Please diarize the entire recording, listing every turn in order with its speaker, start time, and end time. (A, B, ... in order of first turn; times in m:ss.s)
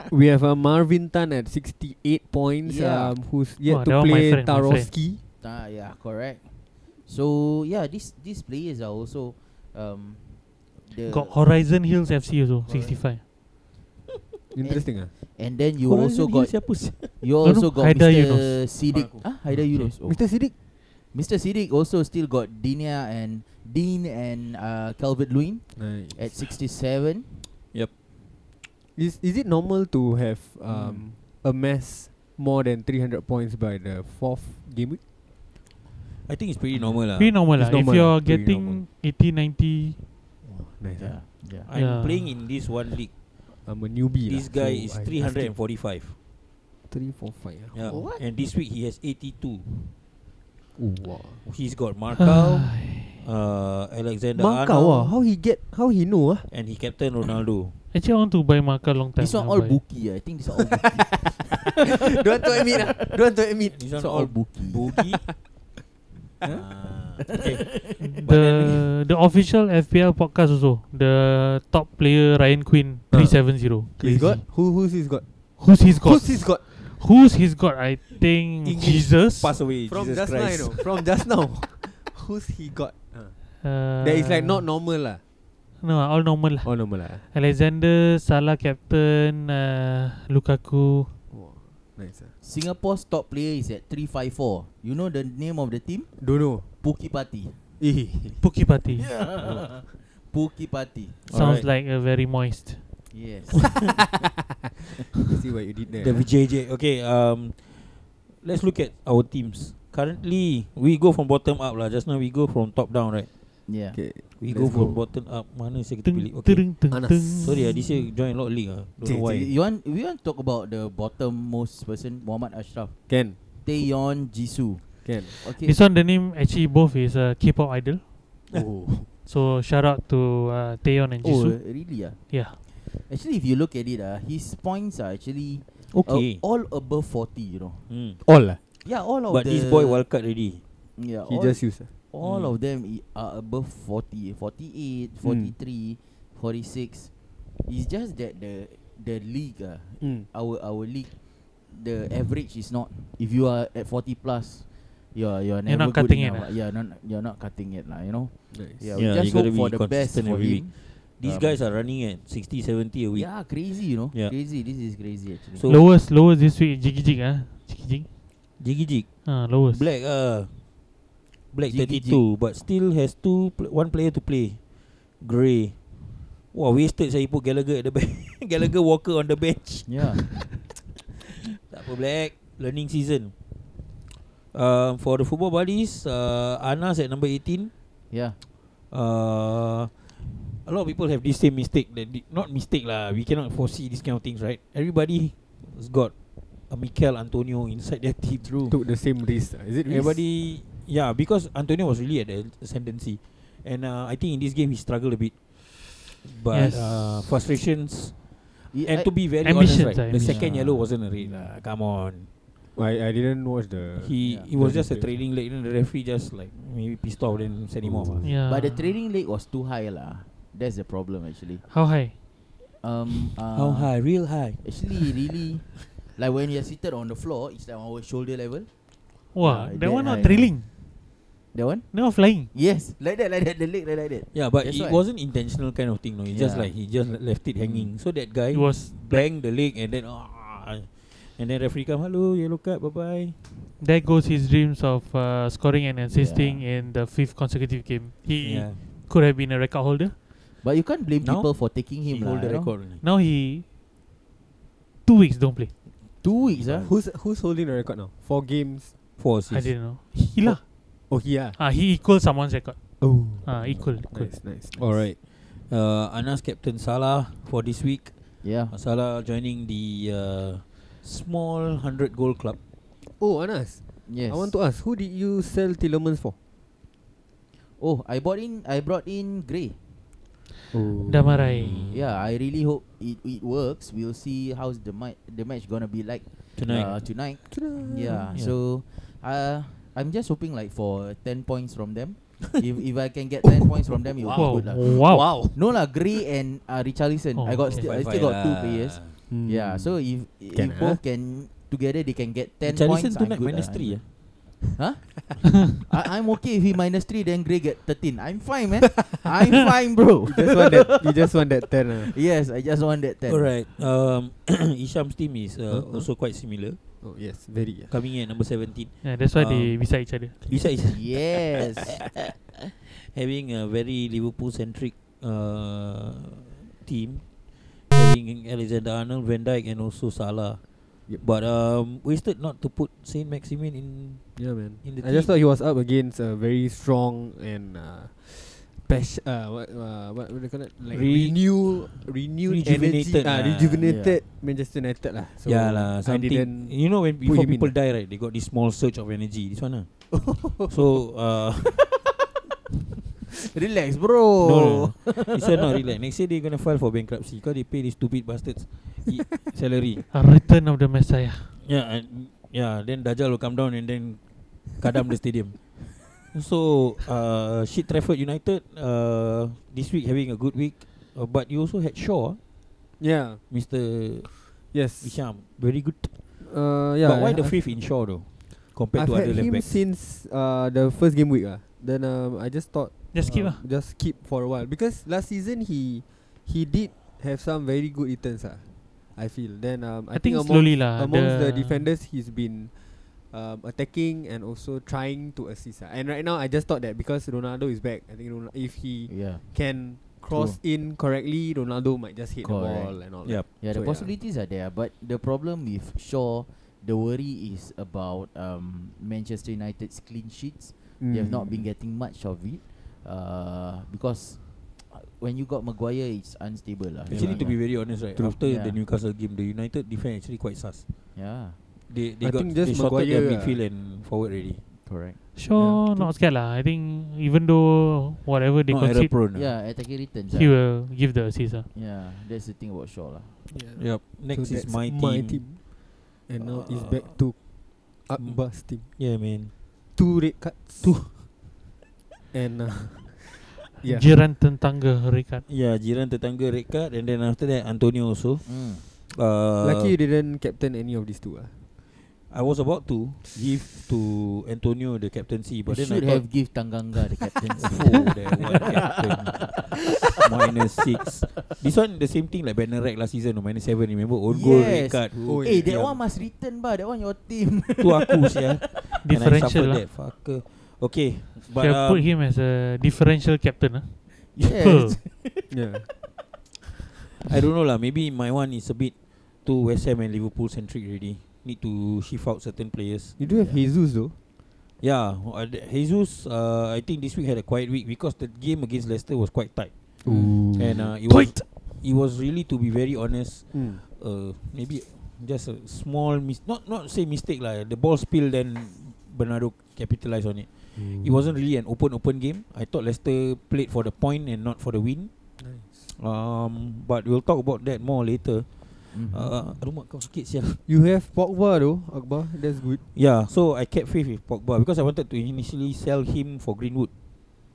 0:00.1-0:05.2 A
0:02.6-0:03.2 B
0:03.7-0:04.9 C
0:05.4-0:11.4 B
0:11.1-0:13.2 C
0:12.7-0:13.0 B
0:14.5-0:15.1 A
0:14.6-0:20.4 B
0:15.8-0:17.2 D
0:17.4-0:18.6 C
0:18.9-0:19.3 D
0:20.1-0:20.5 A
0:21.1-0:27.5 B
0:25.8-0:26.4 A
0:29.0-0:35.0 A
0:30.7-0:31.1 D
0:36.3-0:37.4 D
0:37.2-0:40.0 C
0:37.5-0:38.8 A
0:40.4-0:41.2 A
0:41.0-0:41.7 B
0:41.6-0:43.1 D
0:41.7-0:42.4 C
0:43.6-0:45.6 A
0:44.3-0:46.2 D
0:46.9-0:48.1 A
0:47.7-0:49.7 D
0:47.9-0:48.2 B
0:50.8-0:51.5 A
0:51.4-0:55.2 D
0:52.2-0:53.2 A
0:54.4-0:56.5 A
0:56.5-0:57.8 D
0:57.9-0:59.8 C
0:59.2-1:03.2 B
1:00.8-1:03.8 A
1:03.7-1:05.3 D
1:03.9-1:04.8 B
1:06.4-1:08.2 B
1:06.4-1:08.9 D
1:08.0-1:14.5 C
1:13.1-1:15.2 A
1:15.6-1:19.6 C
1:15.8-1:16.6 A
1:18.6-1:20.9 D
1:19.9-1:23.4 A
1:23.6-1:24.7 C
1:24.0-1:25.2 A
1:25.8-1:31.2 C
1:26.6-1:27.2 A
1:31.3-1:32.3 A
1:32.4-1:37.6 B
1:36.2-1:36.7 A
1:37.8-1:38.4 A
1:38.4-1:39.1 C
1:38.9-1:41.2 B
1:41.3-1:41.7 D
1:41.3-1:42.8 C
1:43.1-1:44.0 B
1:45.3-1:46.3 A
1:45.9-1:53.3 D
1:53.7-1:54.0 B
1:53.9-1:55.0 A
1:54.4-1:56.7 D
1:56.0-1:57.9 C
1:56.9-1:57.6 A
1:57.2-1:59.5 D
1:59.1-2:05.8 B
2:03.1-2:03.4 A
2:05.0-2:05.4 A
2:05.4-2:08.0 C
2:08.5-2:09.1 A
2:09.3-2:12.6 C
2:11.2-2:12.2 B
2:12.9-2:17.9 B
2:15.9-2:16.4 D
2:17.9-2:18.2 D
2:18.2-2:18.6 A
2:18.8-2:20.0 B
2:19.3-2:20.6 D
2:21.0-2:27.1 B
2:21.3-2:21.9 A
2:22.2-2:22.5 D
2:25.2-2:25.5 A
2:27.6-2:31.1 B
2:30.0-2:30.3 A
2:31.7-2:41.6 B
2:35.7-2:36.5 C
2:38.5-2:39.0 A
2:39.0-2:43.3 D
2:43.2-2:45.7 B
2:45.6-2:45.9 D
2:45.6-2:48.1 C
2:48.6-2:50.5 D
2:49.3-2:49.8 C
2:51.5-2:54.6 D
2:51.7-2:52.3 B
2:55.2-2:55.8 D
2:56.5-3:00.5 D
2:59.9-3:00.4 B
3:01.3-3:03.3 D
3:04.5-3:07.7 D
3:08.1-3:08.4 B
3:08.9-3:16.1 D
3:16.7-3:18.5 D
3:18.4-3:18.8 B
3:18.7-3:20.2 A
3:19.8-3:32.3 D
3:26.5-3:27.0 C
3:28.7-3:31.5 B
3:29.4-3:30.4 C
3:32.8-3:35.1 A
3:34.0-3:38.3 D
3:34.2-3:34.5 B
3:37.8-3:38.3 A
3:38.2-3:38.9 C
3:38.5-3:41.6 B
3:41.6-3:42.1 C
3:42.8-3:48.7 B
3:43.5-3:45.1 D
3:49.3-3:50.5 B
3:49.3-3:50.7 C
3:51.5-3:51.9 B
3:51.9-3:52.5 C
3:52.5-3:55.0 B
3:54.3-4:03.4 D
3:56.3-3:56.7 B
3:57.6-3:57.9 B
3:58.5-3:59.2 C
4:03.8-4:10.2 C
4:06.1-4:06.6 B
4:08.4-4:08.8 D
4:10.6-4:12.7 B
4:11.2-4:13.0 D
4:13.0-4:13.6 C
4:15.1-4:15.7 C
4:16.2-4:16.9 B
4:16.6-4:16.8 D
4:16.8-4:18.9 A
4:19.2-4:19.8 D
4:19.5-4:20.6 C
4:20.4-4:21.6 A
4:21.6-4:24.4 C
4:23.0-4:25.1 A
4:24.8-4:28.1 D
4:28.4-4:28.7 B
4:28.7-4:32.6 D
4:33.2-4:36.4 A
4:34.1-4:34.6 B
4:37.8-4:39.8 B
4:40.7-4:42.0 A
4:41.1-4:41.8 C
4:41.9-5:11.4 B
4:46.6-4:47.1 D
4:47.5-4:48.4 A
4:53.5-4:55.6 A
4:54.3-4:55.4 C
4:57.4-4:57.7 C
4:57.7-4:59.2 D
4:59.3-5:01.0 A
5:02.6-5:04.1 D
5:10.2-5:12.1 A
5:12.0-5:13.5 B
5:13.3-5:16.8 D
5:15.7-5:16.1 A
5:17.0-5:18.0 A
5:17.9-5:19.8 D
5:19.0-5:20.4 C
5:20.5-5:27.3 D
5:20.9-5:22.0 B
5:27.8-5:35.3 D
5:34.4-5:47.7 A
5:40.9-5:41.9 D
5:42.5-5:43.9 D
5:43.8-5:44.2 B
5:45.4-5:51.9 D
5:50.2-5:50.8 A
5:53.5-5:55.6 B
5:54.4-6:00.0 D
6:00.1-6:01.6 C
6:01.6-6:12.4 D
6:13.0-6:13.4 A
6:13.5-6:16.4 D
6:14.7-6:15.2 A
6:16.4-6:17.6 A
6:17.0-6:19.8 D
6:18.9-6:44.1 A
6:23.1-6:23.6 C
6:30.1-6:31.9 C
6:39.1-6:40.6 B
6:42.4-6:58.8 B
6:51.0-6:51.6 A
6:57.1-7:00.8 D
6:57.1-6:57.4 A
7:01.2-7:01.6 B
7:01.9-7:04.6 D
7:02.2-7:03.6 A
7:04.8-7:05.2 B
7:05.4-7:09.1 C
7:05.6-7:06.2 A
7:08.7-7:09.5 D
7:09.3-7:10.5 B
7:10.3-7:11.7 C
7:11.7-7:13.4 B
7:13.5-7:18.9 A
7:13.8-7:15.7 D
7:16.4-7:17.3 D
7:18.2-7:19.5 D
7:20.0-7:21.1 A
7:20.8-7:21.1 D
7:22.3-7:24.1 A
7:23.8-7:25.4 C
7:25.5-7:30.0 D
7:28.4-7:28.8 B
7:29.6-7:31.6 A
7:32.3-7:36.2 D
7:35.7-7:40.3 B
7:37.6-7:46.0 D
7:44.3-7:49.0 B
7:45.3-7:45.7 A
7:47.8-7:52.1 D
7:49.0-7:49.8 C
7:51.6-7:55.0 C
7:54.3-7:55.5 B
7:55.5-7:55.9 A
7:57.3-7:58.9 D
7:59.4-8:03.2 D
8:03.2-8:04.2 A
8:03.2-8:03.6 B
8:04.8-8:09.7 D
8:10.0-8:10.9 A
8:10.4-8:25.1 D
8:11.1-8:11.4 C
8:13.5-8:13.8 A
8:20.8-8:21.3 A
8:25.4-8:25.8 A
8:25.9-8:30.6 D
8:28.9-8:29.4 B
8:30.7-8:32.8 A
8:32.8-8:36.9 D